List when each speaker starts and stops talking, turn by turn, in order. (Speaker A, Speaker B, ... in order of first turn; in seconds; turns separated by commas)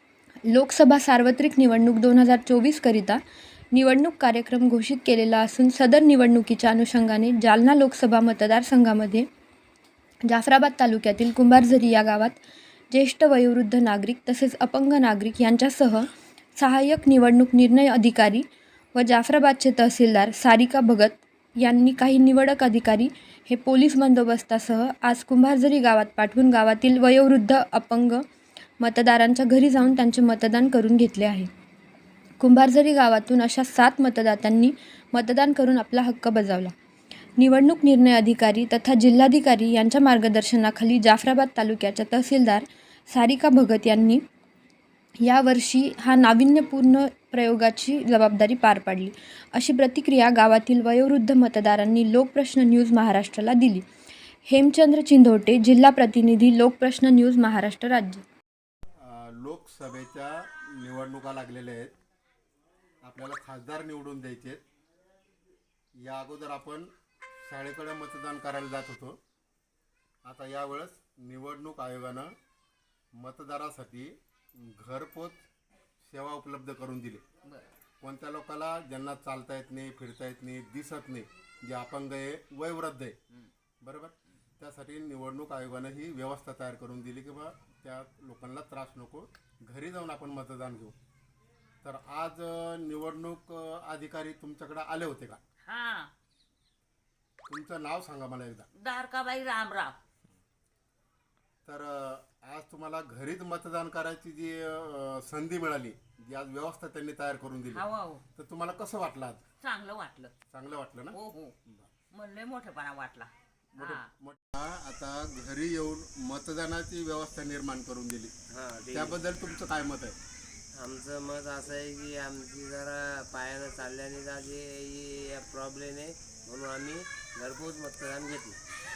Speaker A: 0.5-3.2, Speaker A: 3.7-9.3, Speaker A: 10.2-12.4, Speaker A: 12.9-28.2, Speaker A: 28.8-31.5, Speaker A: 32.4-36.7, Speaker A: 37.4-44.2, Speaker A: 45.2-53.8, Speaker A: 54.5-58.2, Speaker B: 59.0-61.9, Speaker B: 63.0-64.6, Speaker B: 66.0-69.2, Speaker B: 70.3-72.3, Speaker B: 73.2-75.5, Speaker B: 76.0-77.2, Speaker B: 78.0-83.2, Speaker B: 83.8-91.0, Speaker B: 91.8-95.4, Speaker C: 95.7-96.1, Speaker B: 97.5-98.7, Speaker C: 98.8-100.0, Speaker B: 101.7-107.8, Speaker C: 107.9-108.2, Speaker B: 108.4-109.5, Speaker C: 109.6-110.3, Speaker B: 110.5-111.9, Speaker C: 111.1-111.5, Speaker C: 112.1-114.1, Speaker B: 113.7-118.3, Speaker D: 118.5-119.2, Speaker B: 118.9-120.2, Speaker D: 120.8-128.6